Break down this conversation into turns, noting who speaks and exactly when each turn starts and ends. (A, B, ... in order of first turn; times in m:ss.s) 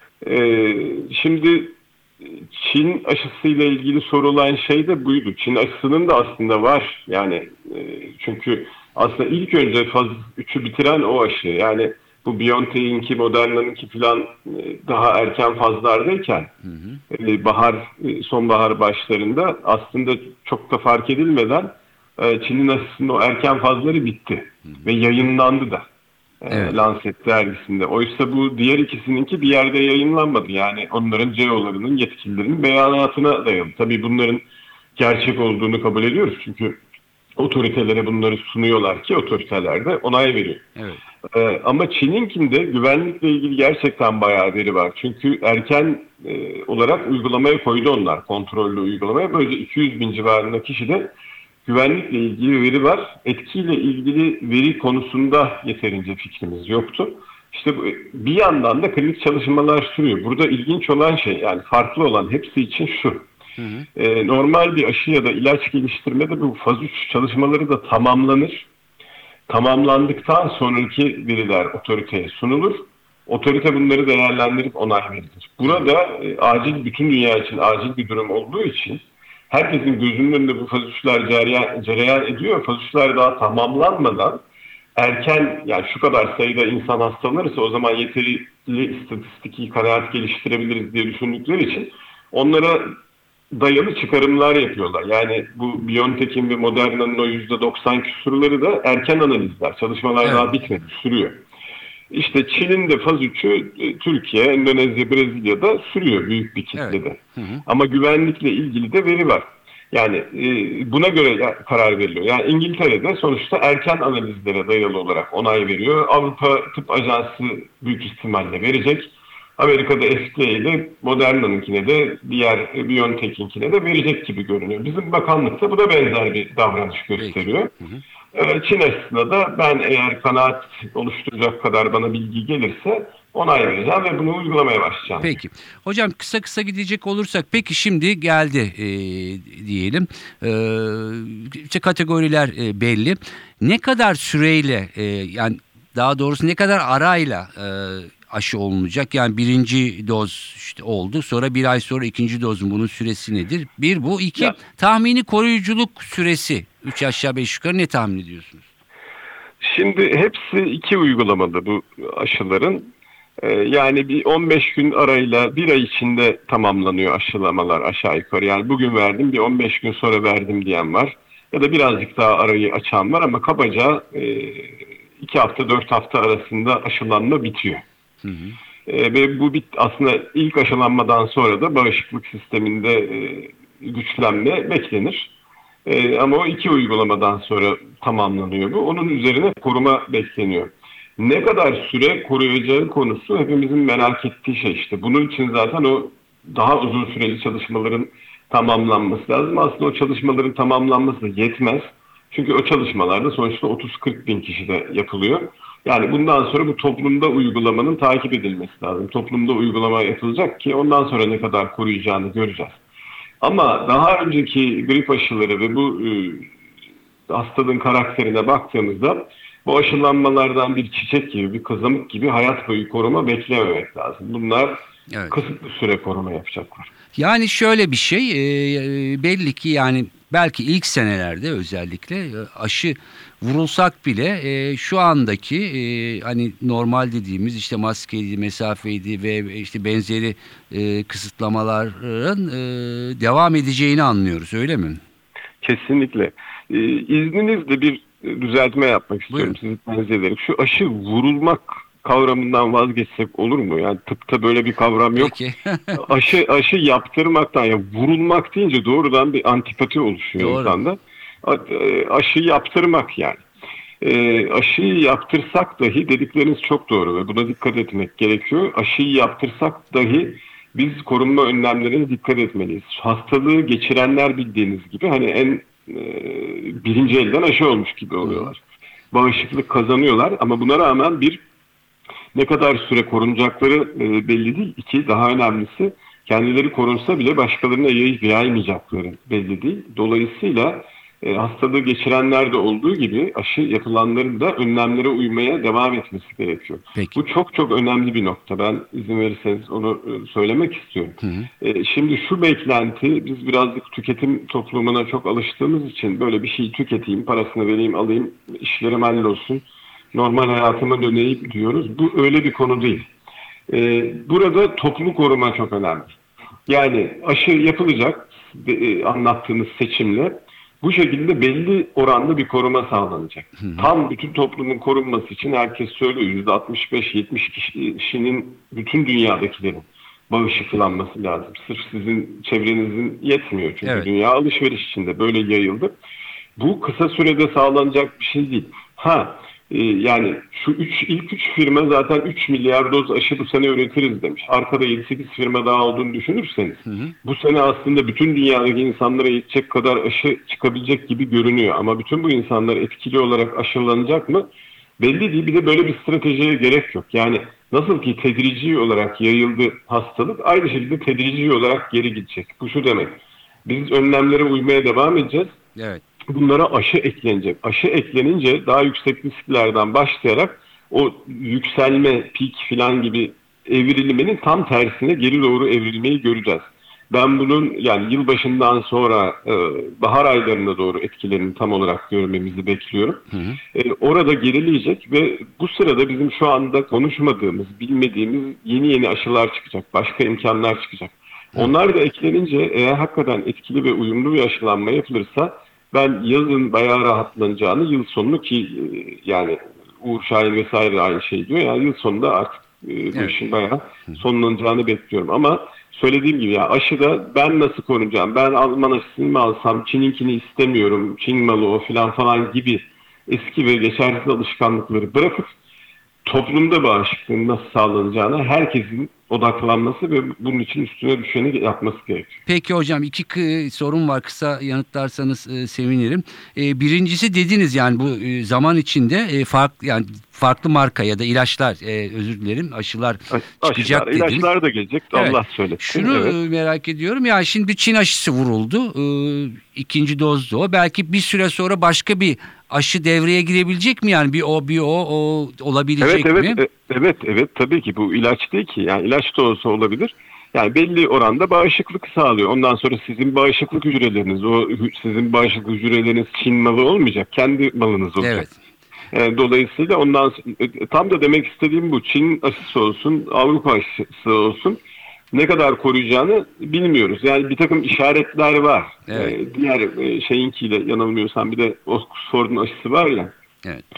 0:00.2-0:16.5 A
0:16.6-0:17.0 B
0:17.1-0:25.9 A
0:26.4-0:34.4 A
0:26.5-0:26.8 B
0:35.0-0:36.8 A
0:37.4-0:40.7 A
0:40.8-0:41.0 B
0:41.3-0:51.1 A
0:51.6-1:03.3 A
1:03.6-1:03.9 B
1:04.0-1:08.7 A
1:09.5-1:24.4 A
1:25.0-1:32.9 A
1:33.5-1:41.4 A
1:40.2-1:40.5 B
1:42.1-2:07.7 A
1:46.8-1:47.6 B
2:07.2-2:08.0 B
2:08.3-2:15.4 A
2:15.2-2:38.6 B
2:39.6-2:57.8 A
2:58.2-2:58.6 B
2:58.9-3:05.3 A
3:05.8-3:32.8 A
3:33.4-3:36.5 A
3:37.3-3:46.9 A
3:45.1-3:45.4 B
3:47.2-4:05.0 B
4:05.6-4:15.4 A
4:09.3-4:09.6 B
4:15.2-4:16.1 B
4:15.9-4:23.4 A
4:20.4-4:20.8 B
4:24.0-4:38.6 A
4:38.2-4:38.5 B
4:39.1-4:41.4 A
4:42.3-5:13.1 A
5:01.2-5:01.5 B
5:13.7-5:16.2 A
5:16.7-5:36.0 A
5:36.6-5:54.5 A
5:46.9-5:47.1 B
5:55.0-6:05.6 A
6:05.8-6:06.0 B
6:06.3-6:55.5 A
6:23.3-6:23.6 B
6:56.2-7:02.4 A
7:02.5-7:14.5 B
7:13.3-7:16.4 A
7:15.1-7:26.6 B
7:26.0-7:38.4 A
7:38.2-7:38.6 B
7:39.1-7:44.8 A
7:45.3-7:53.3 A
7:49.1-7:49.4 B